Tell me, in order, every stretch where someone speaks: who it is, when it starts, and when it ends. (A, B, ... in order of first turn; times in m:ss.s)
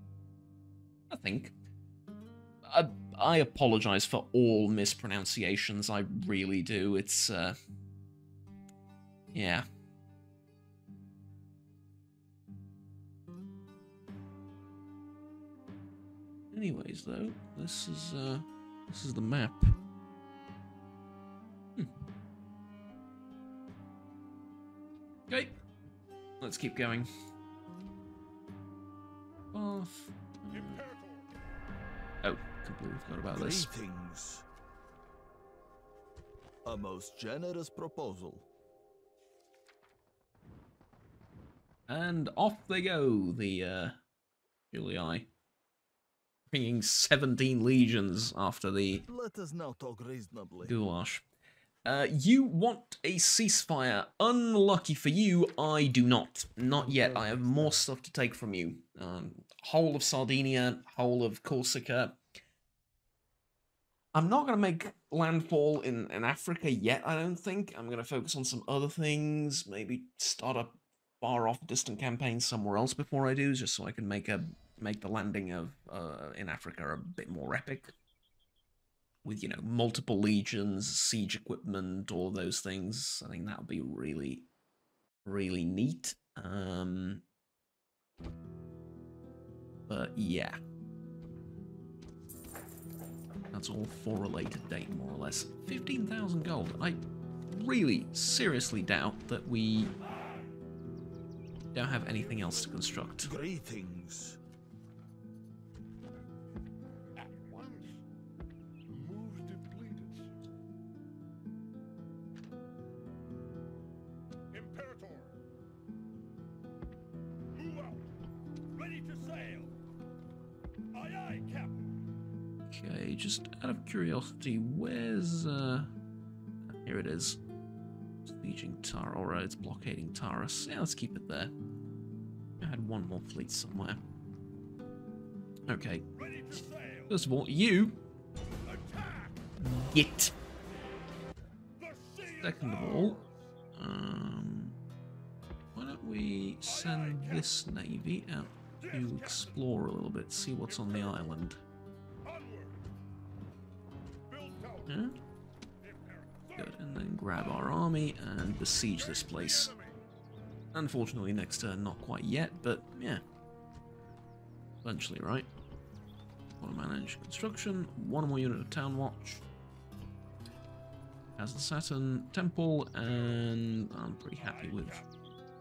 0:01.1-0:01.5 A
0:02.6-0:07.6 A
0:09.3-0:09.6 A
0:16.5-0:19.8 A
0:25.3-0:25.5 A
0:26.4-0:27.1 A
0:29.5-0:30.9 A
0:32.2-0:33.7 A
0:33.3-0:34.4 B
0:36.6-0:38.5 B
0:41.9-0:44.0 A
0:44.7-0:45.3 A
0:46.5-0:49.0 A
0:49.0-0:50.8 B
0:50.6-0:51.2 A
0:51.8-1:02.2 A
1:04.1-1:17.9 A
1:19.2-1:24.4 A
1:25.2-1:27.2 A
1:29.9-1:30.6 A
1:33.5-1:39.9 A
1:41.7-1:43.3 A
1:43.2-1:44.4 B
1:47.1-1:48.0 C
1:48.8-1:50.4 C
1:54.5-1:55.3 C
1:57.6-1:58.1 C
1:58.8-1:59.7 C
2:01.0-2:01.8 C
2:02.7-2:05.9 A
2:06.7-2:07.4 A
2:08.2-2:11.5 A
2:12.6-2:14.0 A
2:15.7-2:16.0 A
2:17.1-2:18.0 A
2:18.7-2:19.3 C
2:19.6-2:20.3 A
2:22.3-2:23.2 A
2:23.8-2:24.8 A
2:25.7-2:31.6 A
2:34.3-2:34.8 C
2:34.9-2:35.2 A
2:36.6-2:39.7 A
2:40.7-2:43.2 A
2:44.8-2:45.5 A
2:46.6-2:49.4 A
2:51.4-2:55.0 A